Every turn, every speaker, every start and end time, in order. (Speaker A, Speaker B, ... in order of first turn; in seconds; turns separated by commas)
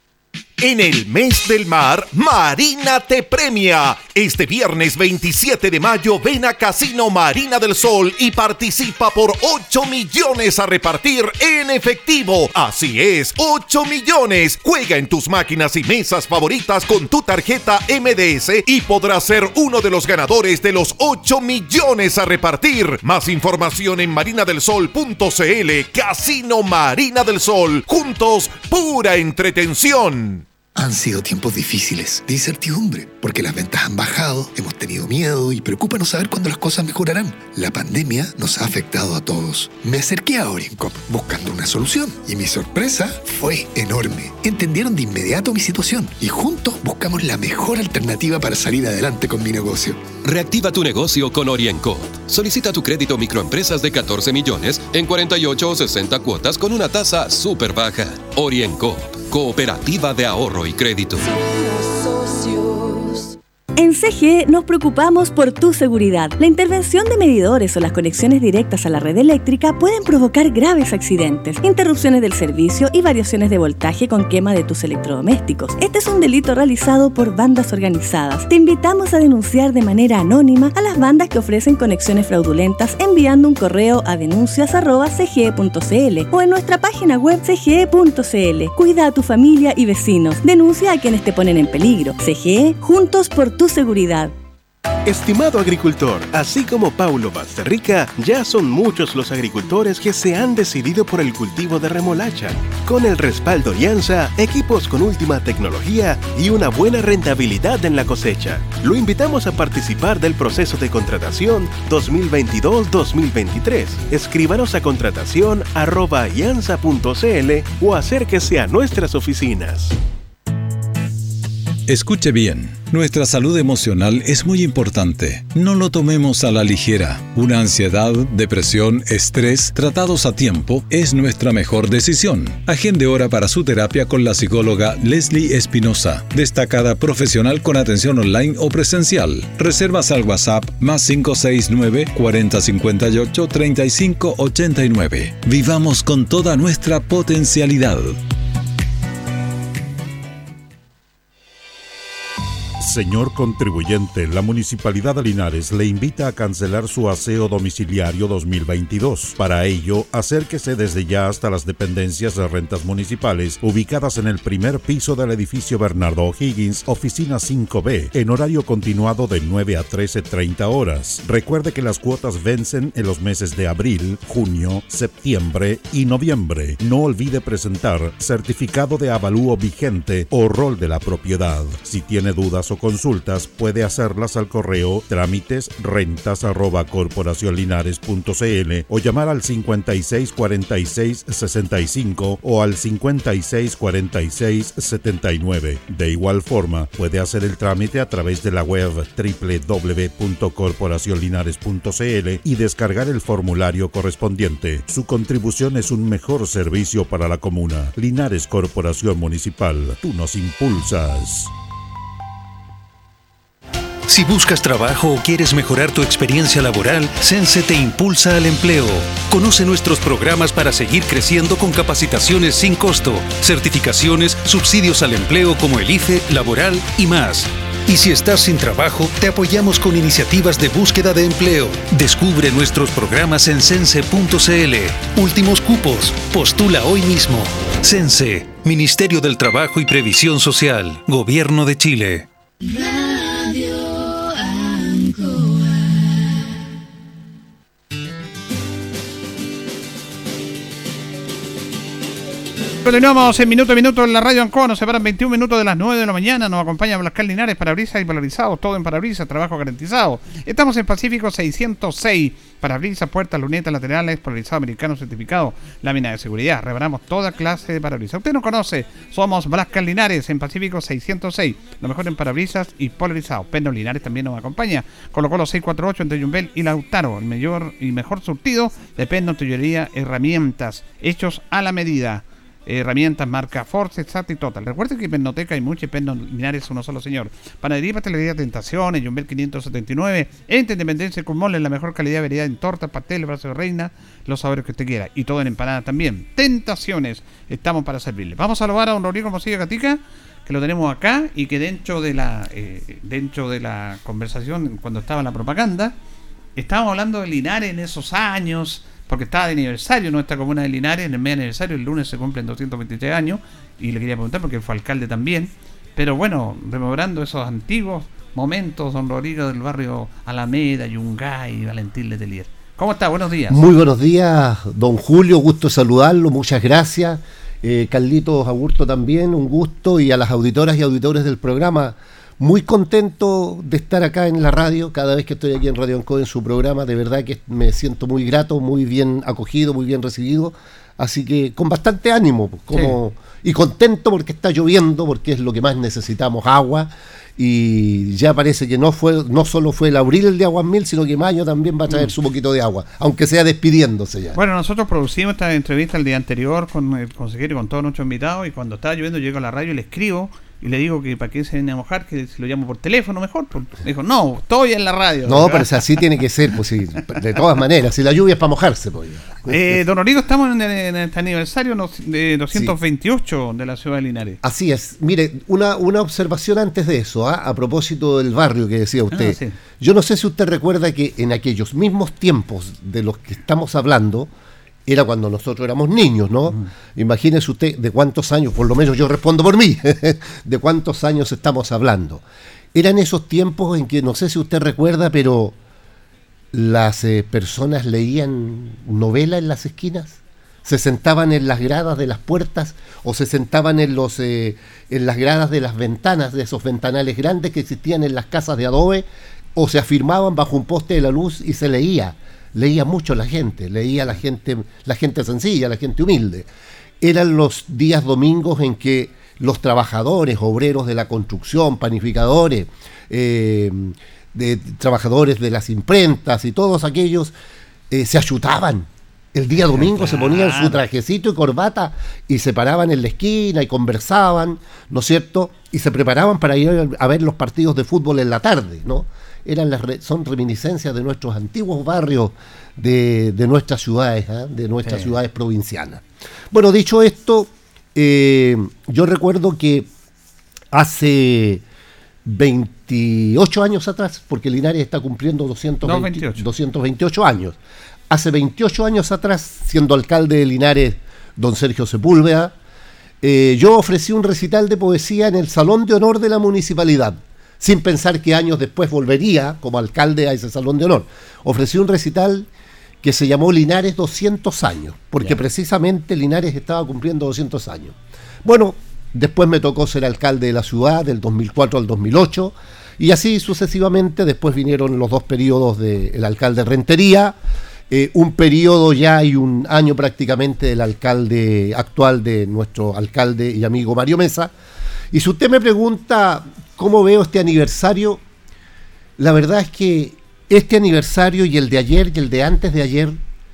Speaker A: 0.6-30.4, Speaker B: 30.7-50.1, Speaker C: 50.2-61.2, Speaker D: 63.8-94.3, Speaker E: 95.0-119.9, Speaker F: 121.9-148.2, Speaker G: 152.8-211.5, Speaker H: 214.1-242.3, Speaker I: 252.8-305.9, Speaker I: 306.6-323.6, Speaker J: 323.5-354.4, Speaker I: 354.3-365.7, Speaker J: 365.2-369.8, Speaker I: 369.5-374.4, Speaker J: 374.4-384.3, Speaker I: 379.1-379.6, Speaker J: 384.9-395.5, Speaker J: 396.5-416.5, Speaker J: 417.0-427.3, Speaker J: 427.9-449.9, Speaker I: 429.6-430.8, Speaker I: 444.8-445.1, Speaker J: 450.7-451.6, Speaker J: 452.2-457.6, Speaker I: 455.8-456.4, Speaker J: 458.1-462.5, Speaker J: 463.2-472.5, Speaker J: 473.0-487.4, Speaker J: 487.9-494.5, Speaker J: 495.1-498.2, Speaker J: 499.2-503.1